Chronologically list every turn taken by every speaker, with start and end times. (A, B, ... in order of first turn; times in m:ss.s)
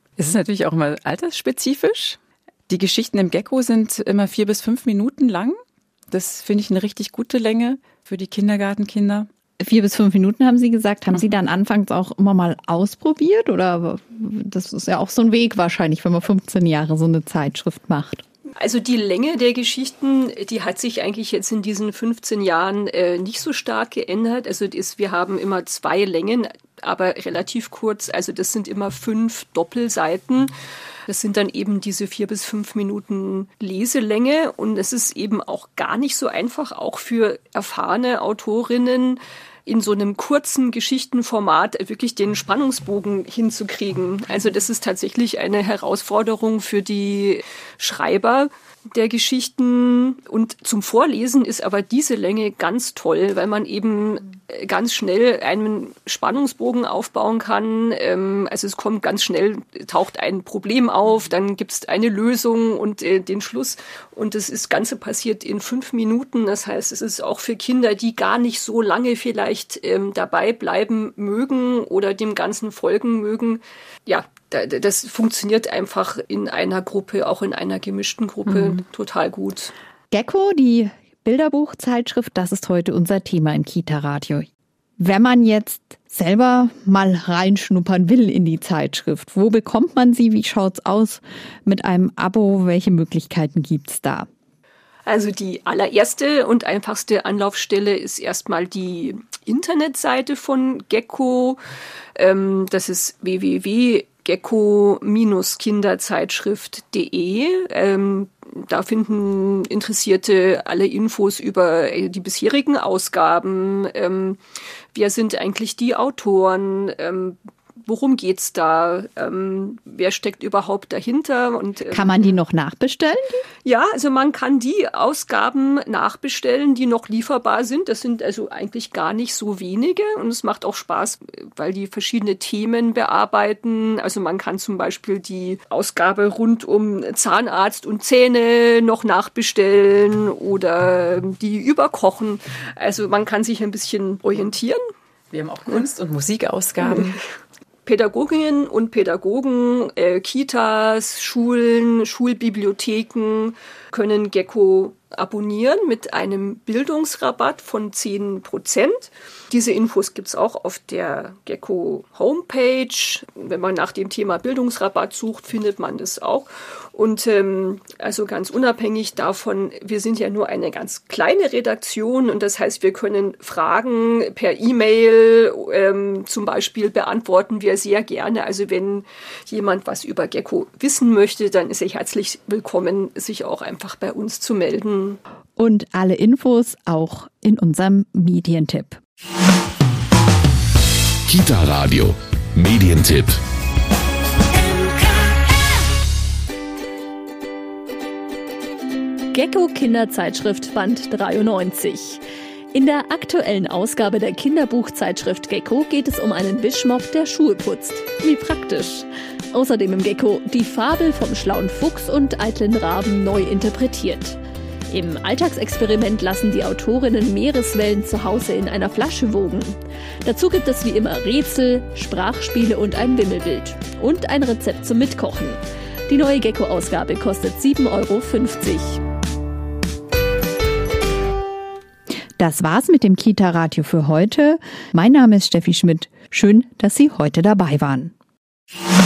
0:00.2-0:02.2 A
0:02.7-0:05.6 A
0:06.1-0:09.3 A
0:09.6-0:18.2 B
0:18.6-0:30.5 C
0:31.1-1:19.7 C
1:20.1-1:24.5 B
1:25.0-1:34.3 B
1:35.1-1:41.6 C
1:42.2-1:54.4 C
1:54.9-2:02.3 C
2:01.9-2:03.4 B
2:03.6-2:24.8 C
2:25.3-2:27.2 A
2:26.8-2:27.1 C
2:27.8-3:05.2 C
3:05.6-3:09.0 B
3:11.3-3:13.3 D
3:19.3-3:22.2 E
3:22.8-3:29.0 E
3:24.0-3:24.2 C
3:29.5-3:34.4 E
3:30.6-3:30.8 C
3:32.9-3:33.8 C
3:34.9-3:39.7 E
3:35.2-3:35.6 C
3:40.3-3:45.6 E
3:46.1-3:49.0 E
3:47.0-3:47.4 C
3:48.0-3:48.6 C
3:52.4-3:58.1 B